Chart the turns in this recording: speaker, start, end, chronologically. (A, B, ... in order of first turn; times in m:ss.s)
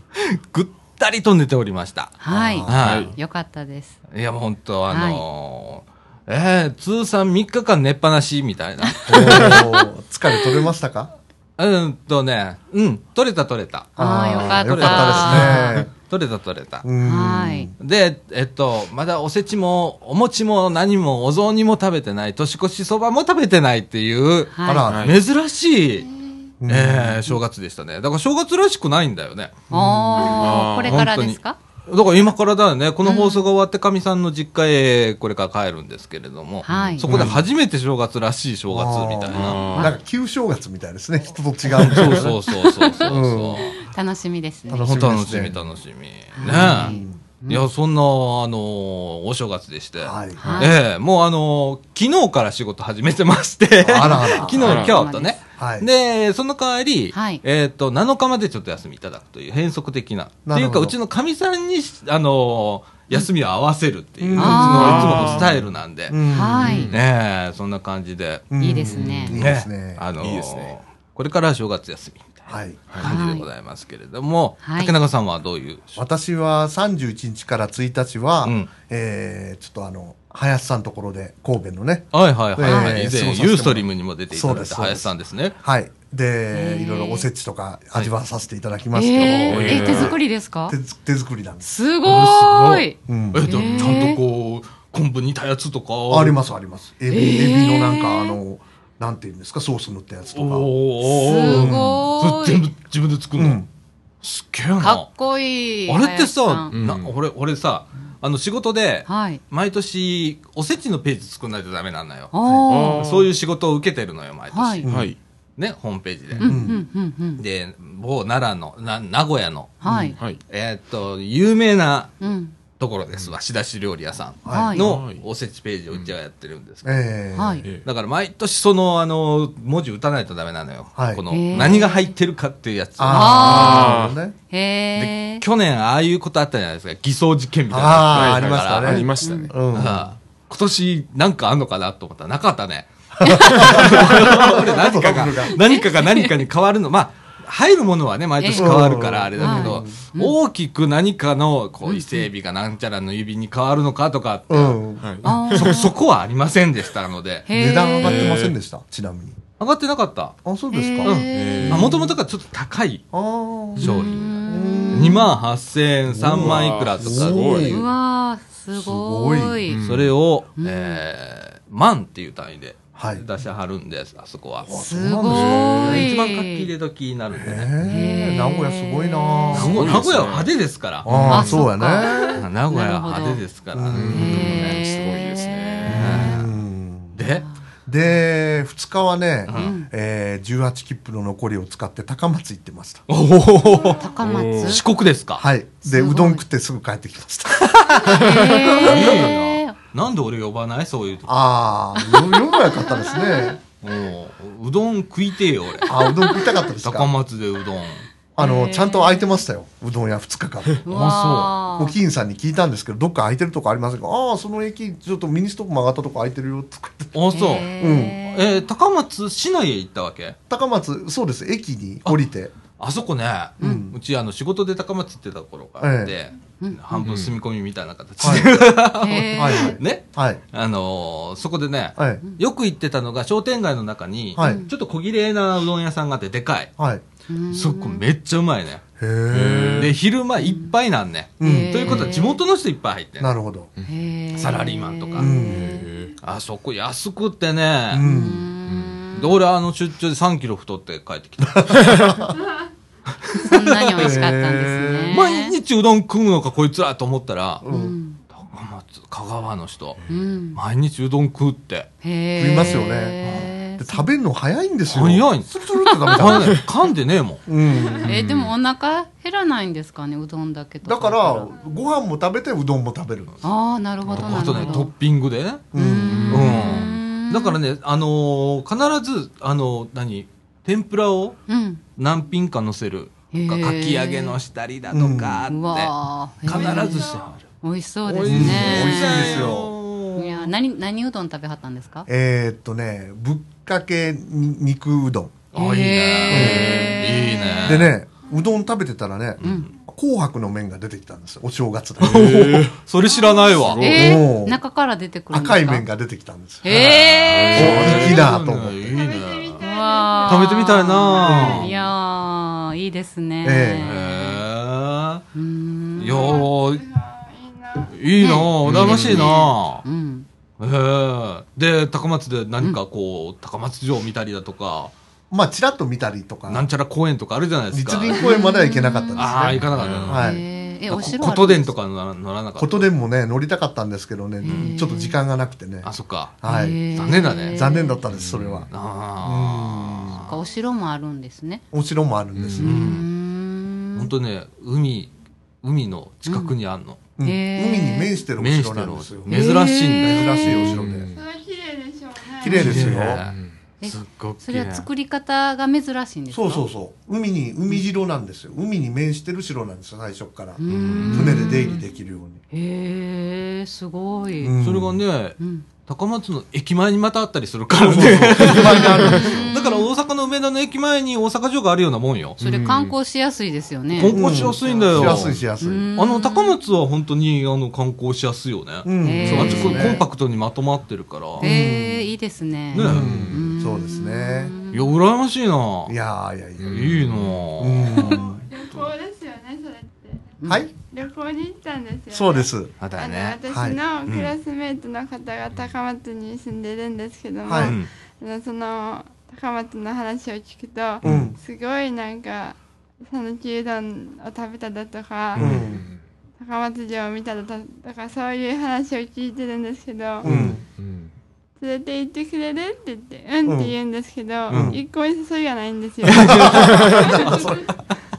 0:00.2-0:03.1 A
0:02.2-0:04.0 B
0:02.3-0:02.8 C
0:02.8-0:03.2 D
0:04.1-0:09.6 A
0:04.9-0:05.2 B
0:08.8-0:09.8 B
0:09.1-0:11.2 C
0:11.6-0:16.8 A
0:14.0-0:15.8 B
0:14.0-0:15.9 C
0:16.8-0:17.7 C
0:17.0-0:17.7 B
0:17.8-0:26.1 A
0:24.5-0:24.9 B
0:24.6-0:25.1 C
0:24.9-0:25.2 D
0:26.6-0:27.4 C
0:26.7-0:29.6 A
0:29.7-0:30.5 C
0:29.7-0:31.6 B
0:30.4-0:31.1 D
0:30.6-0:39.8 A
0:33.0-0:33.5 B
0:36.6-0:37.3 B
0:36.7-0:37.4 D
0:37.1-0:37.4 C
0:38.7-0:43.8 C
0:39.3-0:39.9 D
0:41.7-0:43.7 A
0:42.5-0:44.9 B
0:44.7-0:45.6 C
0:44.7-0:47.0 A
0:46.3-0:47.6 B
0:46.4-0:47.2 C
0:47.5-1:06.2 A
0:50.0-0:50.4 C
0:50.4-0:50.7 D
0:50.4-0:50.8 B
0:53.8-0:54.8 C
0:54.0-0:55.4 B
0:54.6-0:55.0 D
0:55.6-0:55.9 C
0:57.1-0:57.4 B
1:00.5-1:01.0 C
1:04.2-1:05.6 C
1:04.4-1:05.3 B
1:04.6-1:05.6 D
1:06.1-1:06.9 C
1:06.3-1:06.9 B
1:06.6-1:07.0 D
1:06.7-1:08.6 A
1:08.5-1:10.0 C
1:08.6-1:09.4 B
1:08.9-1:09.4 D
1:09.3-1:16.0 A
1:10.2-1:10.7 D
1:12.5-1:13.0 C
1:12.9-1:13.2 D
1:13.0-1:13.5 B
1:14.6-1:14.9 B
1:16.0-1:31.7 C
1:18.4-1:18.7 A
1:22.1-1:25.6 A
1:22.6-1:23.0 B
1:26.5-1:27.3 B
1:28.9-1:30.8 B
1:29.2-1:30.0 A
1:29.5-1:30.2 D
1:31.6-1:34.2 B
1:32.0-1:36.4 A
1:33.1-1:34.0 C
1:36.1-1:40.7 C
1:37.1-1:38.4 B
1:40.4-1:43.6 A
1:41.0-1:42.7 B
1:41.5-1:41.8 C
1:43.4-1:43.7 C
1:44.2-1:45.1 A
1:44.8-1:46.7 B
1:45.9-1:52.3 A
1:46.7-1:47.2 D
1:49.1-1:49.4 B
1:52.3-1:53.0 B
1:52.7-1:53.3 D
1:52.9-1:54.9 A
1:54.5-1:54.8 B
1:54.8-1:55.1 C
1:54.9-1:55.2 D
1:55.6-1:56.6 A
1:56.4-1:57.4 B
1:56.4-1:56.8 C
1:57.4-1:59.8 A
1:59.8-2:00.2 B
1:59.9-2:00.1 C
2:00.5-2:02.1 A
2:02.2-2:02.5 B
2:02.8-2:07.0 A
2:04.4-2:04.8 C
2:04.5-2:04.9 B
2:04.8-2:05.2 D
2:06.8-2:07.6 C
2:07.4-2:07.7 B
2:07.8-2:13.9 A
2:11.0-2:11.8 C
2:11.3-2:12.1 B
2:13.0-2:14.4 C
2:13.1-2:14.0 B
2:13.5-2:14.2 D
2:14.5-2:15.4 B
2:15.0-2:19.1 A
2:17.7-2:20.0 C
2:18.1-2:19.6 D
2:19.2-2:19.5 B
2:19.7-2:37.5 A
2:23.2-2:25.6 C
2:23.2-2:23.7 B
2:25.5-2:26.3 B
2:28.4-2:28.9 B
2:28.5-2:30.0 C
2:29.4-2:30.4 B
2:31.8-2:32.3 B
2:34.5-2:35.0 C
2:35.0-2:35.9 D
2:35.2-2:35.9 B
2:37.5-2:38.3 B
2:37.5-2:39.4 C
2:38.0-2:38.6 D
2:39.6-2:40.4 A
2:40.4-2:41.2 C
2:40.7-2:41.9 B
2:41.0-2:43.0 A
2:41.3-2:42.0 D
2:43.1-2:43.9 C
2:43.8-2:44.3 A
2:43.8-2:45.3 B
2:43.8-2:44.4 D
2:44.5-2:45.2 C
2:44.9-2:47.9 A
2:46.1-2:47.8 C
2:46.2-2:47.8 D
2:47.6-2:49.8 B
2:48.7-2:49.6 C
2:49.7-2:50.1 D
2:49.8-2:54.7 A
2:50.6-2:51.0 B
2:53.0-2:53.2 C
2:54.6-2:56.0 C
2:54.8-2:56.7 B
2:55.3-2:56.0 D
2:55.4-2:57.7 A
2:57.3-2:59.9 C
2:57.9-3:00.0 B
2:59.5-3:01.7 A
2:59.6-3:00.5 D
3:01.0-3:02.4 C
3:01.1-3:01.5 D
3:01.3-3:03.4 B
3:02.3-3:04.8 A
3:03.7-3:04.5 C
3:03.9-3:06.4 D
3:04.1-3:06.5 B
3:05.8-3:06.5 A
3:05.9-3:07.2 C
3:07.2-3:07.4 A
3:07.9-3:13.0 C
3:09.5-3:09.8 A
3:09.5-3:09.9 B
3:13.1-3:15.4 A
3:14.0-3:14.8 B
3:14.2-3:14.8 D
3:15.4-3:19.3 C
3:15.8-3:16.4 B
3:17.8-3:21.3 A
3:18.1-3:19.8 B
3:21.3-3:23.6 C
3:22.0-3:22.9 B
3:23.8-3:26.2 A
3:25.9-3:27.1 C
3:26.0-3:26.3 B
3:26.8-3:28.1 A
3:28.4-3:30.9 C
3:28.4-3:29.4 B
3:30.8-3:32.0 B
3:30.9-3:31.6 A
3:31.8-3:38.2 C
3:37.1-3:37.7 A
3:37.3-3:38.6 B
3:38.2-3:40.4 A
3:40.5-3:42.5 C
3:42.8-3:56.7 A
3:43.6-3:43.9 B
3:43.6-3:44.0 C
3:45.8-3:46.2 C
3:47.0-3:47.4 D
3:48.2-3:48.5 C
3:49.0-3:49.8 B
3:49.4-3:50.4 C
3:52.0-3:52.2 C
3:54.4-3:54.6 C
3:54.4-3:54.7 B
3:56.8-3:57.0 C
3:57.3-3:58.0 B
3:57.5-3:58.8 A
3:59.0-3:59.9 C
3:59.3-3:59.9 D
3:59.8-4:03.3 A
4:00.4-4:00.7 B
4:01.4-4:02.0 C
4:01.4-4:02.4 B
4:03.2-4:03.7 C
4:03.8-4:05.9 B
4:04.4-4:05.3 A
4:05.2-4:05.7 C
4:05.4-4:06.2 D
4:06.2-4:08.0 A
4:07.9-4:08.5 C
4:08.0-4:09.4 B
4:08.7-4:09.1 D
4:09.2-4:12.1 A
4:11.6-4:12.3 C
4:13.2-4:14.2 A
4:13.3-4:15.6 B
4:13.9-4:15.1 C
4:15.1-4:17.6 A
4:17.6-4:18.0 C
4:17.7-4:18.2 B
4:18.3-4:20.0 A
4:20.1-4:20.6 B
4:20.5-4:21.9 A
4:22.0-4:24.1 B
4:22.4-4:26.6 C
4:24.9-4:25.5 A
4:25.8-4:26.2 B
4:26.1-4:27.4 A
4:27.5-4:28.1 C
4:27.8-4:28.0 E
4:28.0-4:31.5 B
4:28.0-4:28.5 D
4:30.8-4:33.4 C
4:33.4-4:34.9 B
4:34.1-4:35.7 A
4:34.1-4:34.4 D
4:35.7-4:36.6 C
4:35.8-4:37.6 B
4:36.1-4:36.9 D
4:36.3-4:41.4 A
4:41.5-4:41.8 B
4:42.0-4:47.4 A
4:43.3-4:44.4 B
4:44.9-4:45.5 C
4:45.5-4:49.6 B
4:46.5-4:47.3 E
4:48.0-4:50.5 A
4:48.2-4:49.7 C
4:50.2-4:52.1 B
4:52.1-4:55.4 C
4:55.5-4:57.9 A
4:55.5-4:57.9 B
4:56.3-4:56.8 C
4:56.4-4:57.0 D
4:57.6-5:02.6 C
4:59.4-4:59.7 B
4:59.4-4:59.7 A
5:02.0-5:02.8 D
5:02.0-5:04.0 A
5:03.1-5:03.7 E
5:03.6-5:04.0 D
5:03.7-5:05.9 B
5:03.8-5:04.6 C
5:05.3-5:06.8 C
5:06.6-5:08.1 B
5:06.6-5:09.6 A
5:07.3-5:08.3 D
5:07.6-5:09.0 C
5:08.9-5:11.6 E
5:09.6-5:14.4 B
5:10.3-5:11.7 A
5:11.2-5:11.7 C
5:13.4-5:13.9 C
5:13.8-5:15.2 A
5:15.3-5:16.4 B
5:16.0-5:16.8 A
5:16.0-5:18.0 E
5:17.9-5:19.8 A
5:18.2-5:20.3 B
5:18.7-5:19.0 D
5:19.1-5:19.3 E
5:20.6-5:24.9 A
5:25.3-5:26.7 C
5:26.5-5:28.3 A
5:27.7-5:30.4 C
5:28.1-5:29.3 B
5:29.2-5:30.3 A
5:29.5-5:30.2 D
5:30.1-5:31.7 B
5:30.9-5:32.9 A
5:32.6-5:37.0 C
5:34.4-5:35.2 B
5:34.4-5:34.8 A
5:35.8-5:36.4 A
5:36.4-5:38.0 B
5:36.9-5:37.7 A
5:37.5-5:38.7 C
5:38.1-5:38.7 D
5:38.7-5:40.4 A
5:39.2-5:40.3 C
5:40.3-5:41.6 B
5:41.7-5:42.8 C
5:42.4-5:42.7 D
5:42.5-5:43.1 A
5:42.6-5:44.1 B
5:44.0-5:47.0 A
5:46.3-5:46.5 B
5:47.2-5:49.4 C
5:47.2-5:48.2 B
5:48.4-5:50.8 A
5:49.3-5:50.4 B
5:50.0-5:51.1 C
5:50.5-5:51.3 D
5:51.2-5:52.6 E
5:52.4-5:53.2 C
5:52.5-5:54.9 A
5:52.6-5:53.6 D
5:53.8-5:56.6 B
5:56.3-6:02.4 C
6:00.6-6:01.8 B
6:00.7-6:01.5 A
6:01.0-6:01.8 D
6:02.5-6:04.6 B
6:04.4-6:05.0 C
6:04.5-6:12.4 A
6:05.4-6:05.7 B
6:07.8-6:09.5 C
6:08.5-6:09.3 D
6:08.8-6:09.9 B
6:12.4-6:12.9 D
6:12.4-6:16.6 B
6:13.9-6:15.4 A
6:14.1-6:15.9 C
6:16.0-6:21.5 A
6:18.8-6:20.0 C
6:19.0-6:20.0 B
6:21.4-6:22.1 C
6:21.4-6:25.0 B
6:22.7-6:23.4 A
6:22.8-6:24.6 C
6:22.8-6:23.4 D
6:24.7-6:26.0 A
6:25.9-6:26.8 C
6:26.6-6:27.3 D
6:26.6-6:28.9 A
6:27.1-6:28.2 B
6:27.6-6:28.4 C
6:28.5-6:30.3 E
6:30.4-6:30.7 B
6:30.5-6:30.7 C
6:30.9-6:45.7 E
6:32.1-6:32.7 C
6:32.8-6:33.4 A
6:33.5-6:33.8 C
6:34.0-6:34.3 A
6:37.5-6:37.8 C
6:37.5-6:37.9 A
6:41.0-6:41.4 C
6:41.0-6:41.3 D
6:45.4-6:46.0 D
6:45.4-6:45.8 C
6:46.4-6:50.3 E
6:50.2-6:50.6 C
6:50.2-6:51.1 D
6:51.6-6:57.5 E
6:53.4-6:53.8 C
6:54.5-6:54.8 A
6:54.5-6:54.8 C
6:56.1-6:56.7 A
6:56.1-6:57.7 C